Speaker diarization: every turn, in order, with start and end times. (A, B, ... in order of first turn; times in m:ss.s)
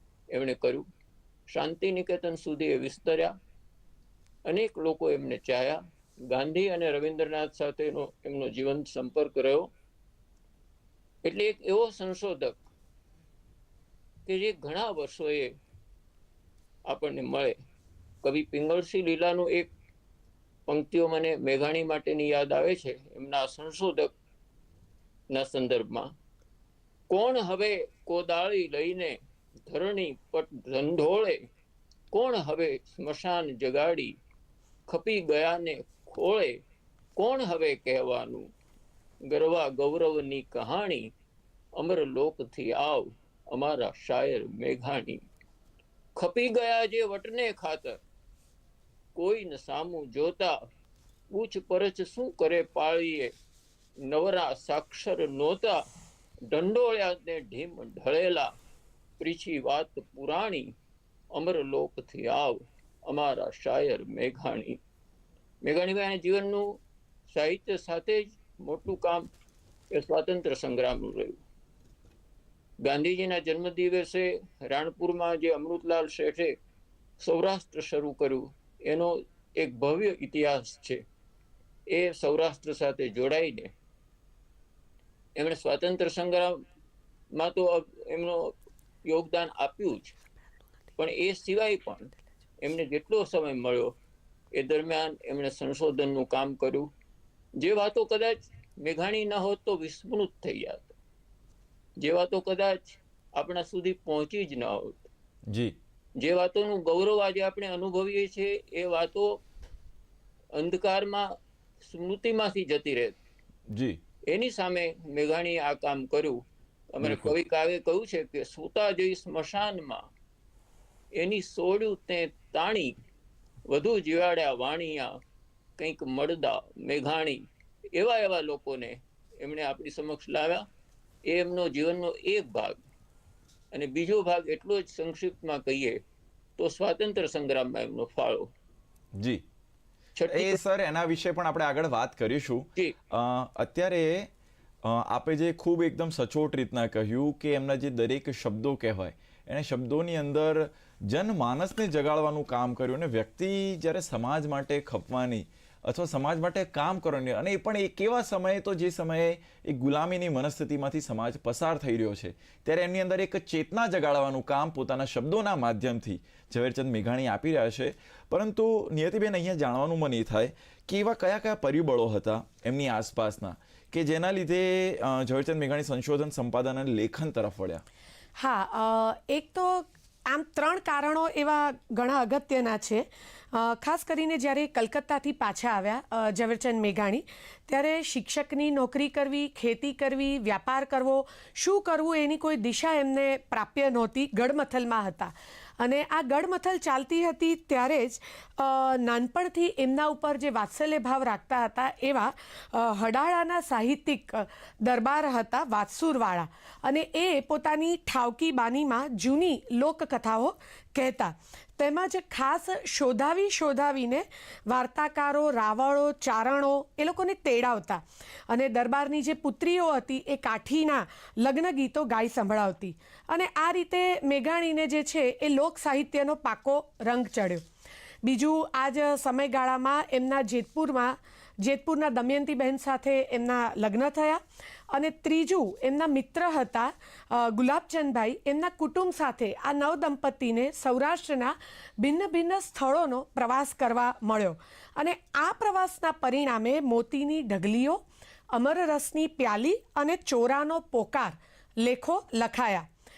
0:00.3-0:00.9 A
0:01.5-0:03.3 A
0:04.4-0:09.7 A
0:11.2-0:12.6 A
0:14.3-0:15.5 A
0:16.9-0:17.6 A
0:18.2-0:19.7 A
0:20.7-0:24.1 A
0:25.3-0:26.1 A
0:27.1-0:31.4 A
0:32.1-0:34.2 A
0:34.9-0:36.6 A
0:37.2-0:38.5 A
0:39.3-0:41.1 A
0:41.8-0:45.2 A
0:46.2-0:48.0 A
0:49.2-0:50.6 A
0:51.3-0:53.3 A
0:54.0-0:55.8 A
0:56.5-0:58.5 A
0:59.2-1:00.7 A
1:01.3-1:04.8 A
1:05.6-1:06.8 A
1:07.3-1:09.3 A
1:09.9-1:11.4 A
1:12.8-1:16.6 A
1:17.2-1:21.0 A
1:21.9-1:23.7 A
1:25.4-1:26.6 A
1:27.3-1:28.5 A
1:29.0-1:30.2 A
1:31.0-1:33.9 A
1:34.5-1:36.9 A
1:37.6-1:40.9 A
1:42.0-1:45.1 A
1:45.5-1:45.8 B
1:46.2-1:49.4 A
1:50.6-1:53.2 A
1:53.7-1:54.0 B
1:54.3-1:56.4 A
1:56.9-2:00.1 A
1:57.0-1:57.3 B
2:01.1-2:02.9 A
2:03.7-2:05.2 A
2:05.8-2:10.6 A
2:11.2-2:12.8 A
2:13.7-2:16.0 A
2:16.6-2:18.5 A
2:19.2-2:19.4 B
2:20.2-2:20.6 A
2:20.3-2:24.3 B
2:24.8-2:57.8 B
2:58.4-3:47.6 C
3:48.2-4:12.9 C